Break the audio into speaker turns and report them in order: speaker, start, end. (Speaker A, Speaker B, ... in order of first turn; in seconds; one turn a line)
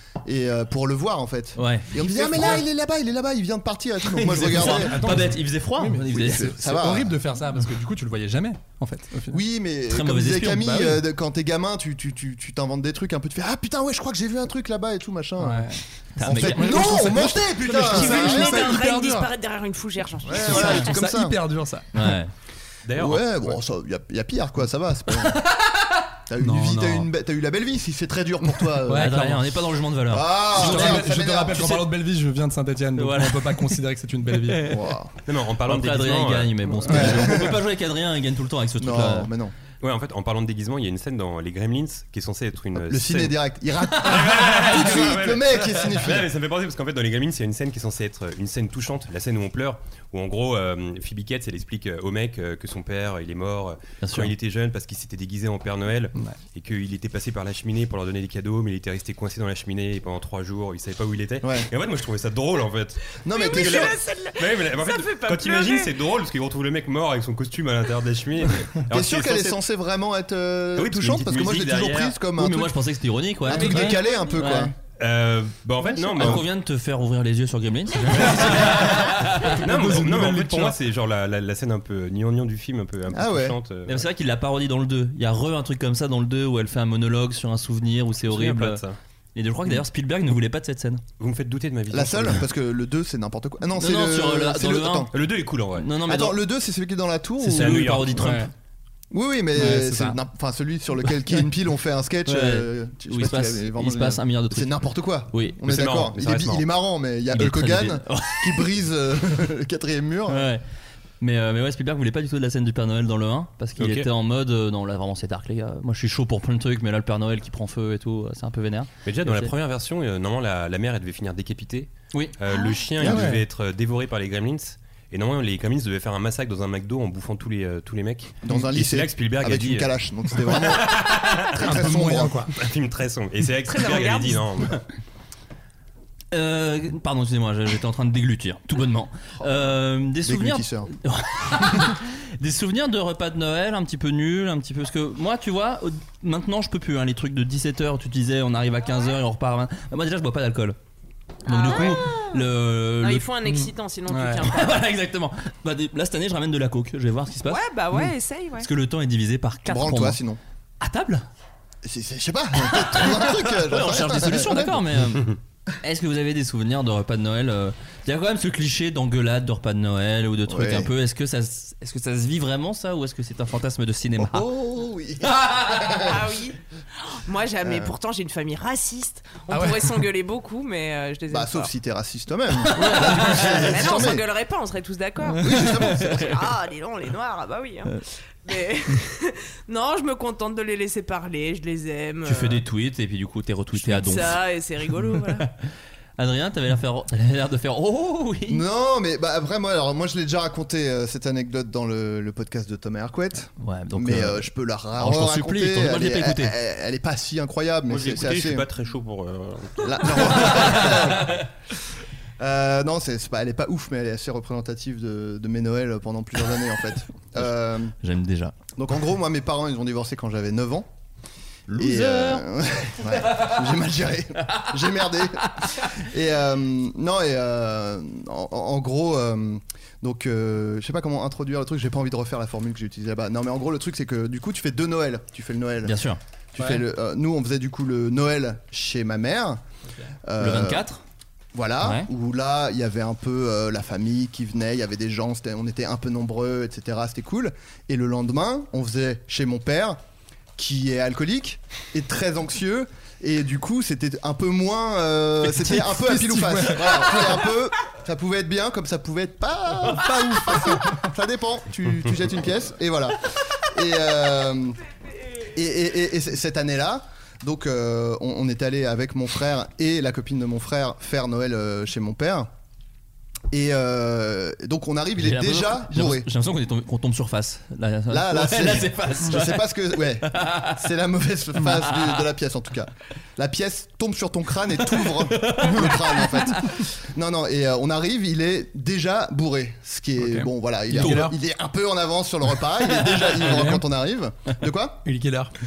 Speaker A: 0.2-5.2
Speaker B: 1.6-2.6
Speaker C: 4.2-9.4
Speaker B: 4.3-6.5
Speaker A: 6.1-7.1
Speaker A: 9.3-15.7
Speaker B: 9.9-11.0
Speaker C: 15.4-19.3
Speaker B: 16.2-17.3
Speaker A: 16.2-18.7
Speaker D: 17.6-21.0
Speaker A: 20.3-21.4
Speaker C: 20.4-22.1
Speaker B: 21.9-22.3
Speaker E: 22.9-23.6
Speaker A: 22.9-25.4
Speaker B: 25.2-25.9
Speaker A: 26.3-29.2
Speaker C: 26.4-27.1
Speaker C: 28.8-29.4
Speaker B: 28.9-31.1
Speaker A: 30.1-31.9
Speaker C: 30.5-34.8
Speaker B: 33.0-33.8
Speaker A: 34.6-35.1
Speaker E: 35.3-37.2
Speaker B: 35.6-39.3
Speaker C: 36.8-37.2
Speaker A: 36.9-37.6
Speaker A: 38.8-39.5
Speaker E: 39.8-43.3
Speaker A: 42.8-46.3
Speaker E: 43.9-69.6
Speaker B: 54.0-54.3
Speaker A: 61.4-61.7
Speaker A: 63.2-63.9
Speaker D: 63.3-66.0
Speaker A: 68.9-72.8
Speaker E: 70.8-72.2
Speaker B: 72.3-74.7
Speaker A: 73.5-74.7
Speaker D: 73.5-74.4
Speaker E: 75.0-76.4
Speaker A: 76.0-76.4
Speaker B: 76.0-79.5
Speaker E: 78.2-84.0
Speaker C: 78.4-80.8
Speaker A: 83.1-83.6
Speaker B: 83.9-88.8
Speaker E: 88.3-89.0
Speaker B: 89.3-91.0
Speaker E: 91.2-92.4
Speaker A: 91.9-95.1
Speaker B: 93.8-95.1
Speaker E: 95.1-96.0
Speaker B: 95.7-96.4
Speaker A: 96.0-98.0
Speaker B: 97.4-98.5
Speaker E: 97.4-98.2
Speaker C: 98.2-98.5
Speaker A: 99.1-110.5
Speaker C: 99.5-100.2
Speaker B: 102.3-104.8
Speaker B: 105.3-105.6
Speaker E: 105.6-106.7
Speaker B: 107.3-108.7
Speaker B: 110.3-110.6
Speaker B: 111.2-119.5
Speaker E: 113.8-114.1
Speaker E: 119.0-131.6
Speaker D: 122.5-122.9
Speaker C: 123.0-123.4
Speaker A: 123.0-123.3
Speaker A: 128.4-132.5
Speaker C: 131.6-132.5
Speaker E: 132.6-134.8
Speaker D: 133.7-134.4
Speaker B: 136.3-150.8
Speaker A: 140.2-140.9
Speaker B: 151.4-153.3
Speaker D: 151.5-152.5
Speaker D: 153.0-154.9
Speaker C: 153.4-154.4
Speaker B: 154.4-157.7
Speaker D: 157.4-158.7
Speaker B: 158.6-160.2
Speaker A: 159.7-160.4
Speaker B: 160.8-161.2
Speaker A: 161.8-165.2
Speaker B: 162.6-174.5
Speaker A: 170.4-170.9
Speaker A: 174.2-176.1
Speaker D: 175.9-176.6
Speaker D: 177.2-181.7
Speaker A: 177.6-177.9
Speaker C: 179.5-179.9
Speaker A: 181.3-184.2
Speaker C: 182.8-183.2
Speaker D: 182.8-192.6
Speaker A: 185.4-186.3
Speaker B: 192.2-194.4
Speaker D: 193.8-195.5
Speaker B: 196.2-198.6
Speaker A: 198.5-208.7
Speaker B: 203.6-206.6
Speaker E: 207.9-210.9
Speaker A: 209.8-211.4
Speaker A: 212.4-217.9
Speaker B: 218.0-218.6
Speaker A: 218.8-220.9
Speaker B: 221.7-222.4
Speaker A: 221.7-236.0
Speaker B: 235.8-236.2
Speaker A: 236.5-239.6
Speaker C: 236.6-236.8
Speaker A: 240.3-240.9
Speaker B: 240.4-241.0
Speaker A: 241.5-250.0
Speaker B: 241.8-242.1
Speaker A: 250.6-264.8
Speaker C: 255.4-257.4
Speaker C: 260.1-261.0
Speaker A: 265.5-272.5
Speaker A: 273.5-276.3
Speaker B: 275.2-280.8
Speaker A: 278.1-295.0
Speaker B: 281.9-282.2
Speaker B: 285.0-286.5
Speaker C: 290.2-291.4
Speaker C: 293.4-293.8
Speaker C: 295.1-295.5